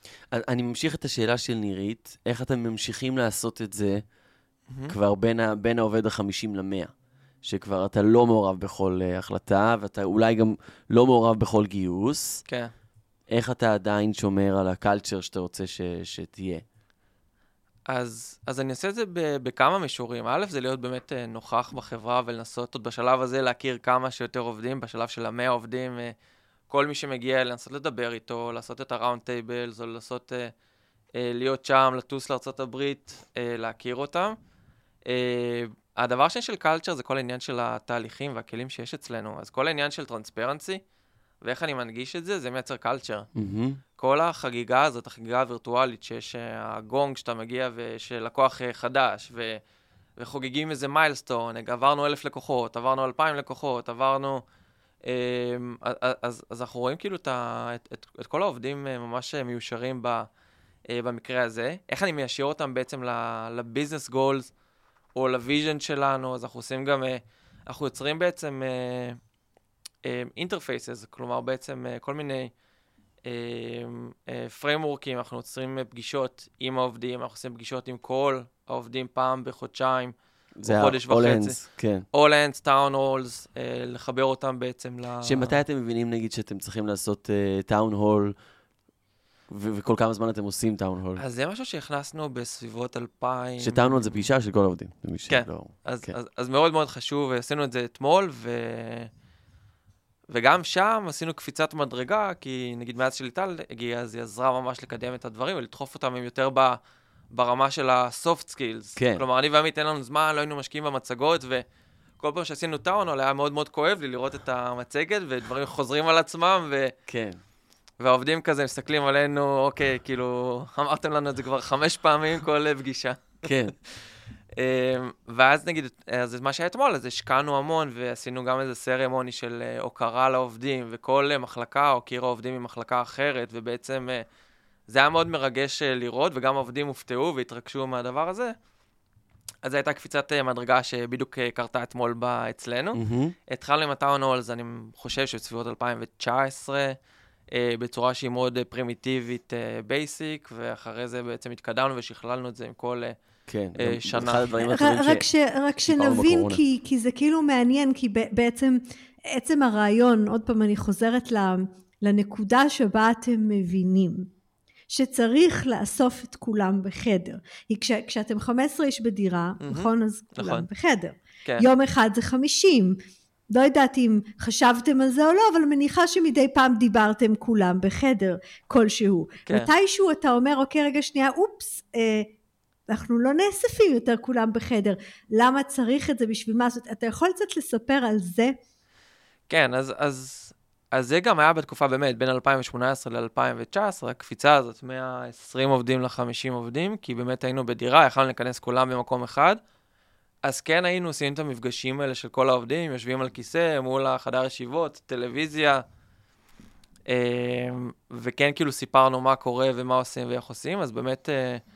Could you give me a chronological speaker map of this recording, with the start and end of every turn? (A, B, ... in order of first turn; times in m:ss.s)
0:00.3-0:04.0 A
0:04.7-0:05.0 B
0:04.9-0:06.9 A
0:07.4-0:12.4 A
0:13.3-0:16.6 A
0:17.9-0:26.1 B
0:26.7-0:30.5 B
0:31.2-0:34.4 B
0:35.1-0:40.8 B
0:41.4-0:43.3 B
0:43.4-0:43.8 A
0:44.0-0:49.6 B
0:50.2-0:54.4 B
0:55.0-1:00.3 B
1:00.9-1:04.5 B
1:05.2-1:09.2 B
1:10.0-1:12.5 B
1:13.2-1:21.6 B
1:20.6-1:22.1 A
1:22.1-1:25.6 B
1:25.2-1:28.4 A
1:29.5-1:31.2 A
1:31.2-1:34.2 B
1:33.6-1:36.2 A
1:35.3-1:39.1 B
1:40.3-1:46.8 B
1:47.3-1:51.6 B
1:49.0-1:49.2 A
1:52.2-1:57.0 B
1:57.1-1:57.4 A
1:58.0-2:03.5 B
2:03.4-2:03.7 A
2:04.6-2:14.2 B
2:14.9-2:18.6 B
2:19.6-2:27.0 B
2:23.0-2:23.4 A
2:27.5-2:33.2 B
2:33.5-2:35.2 A
2:33.8-2:34.6 B
2:34.7-2:44.3 C
2:35.9-2:36.6 A
2:44.9-2:53.0 C
2:49.6-2:50.7 B
2:53.5-3:02.3 C
3:02.9-3:08.6 C
3:09.5-3:19.6 B
3:20.4-3:25.8 B
3:27.1-3:31.6 B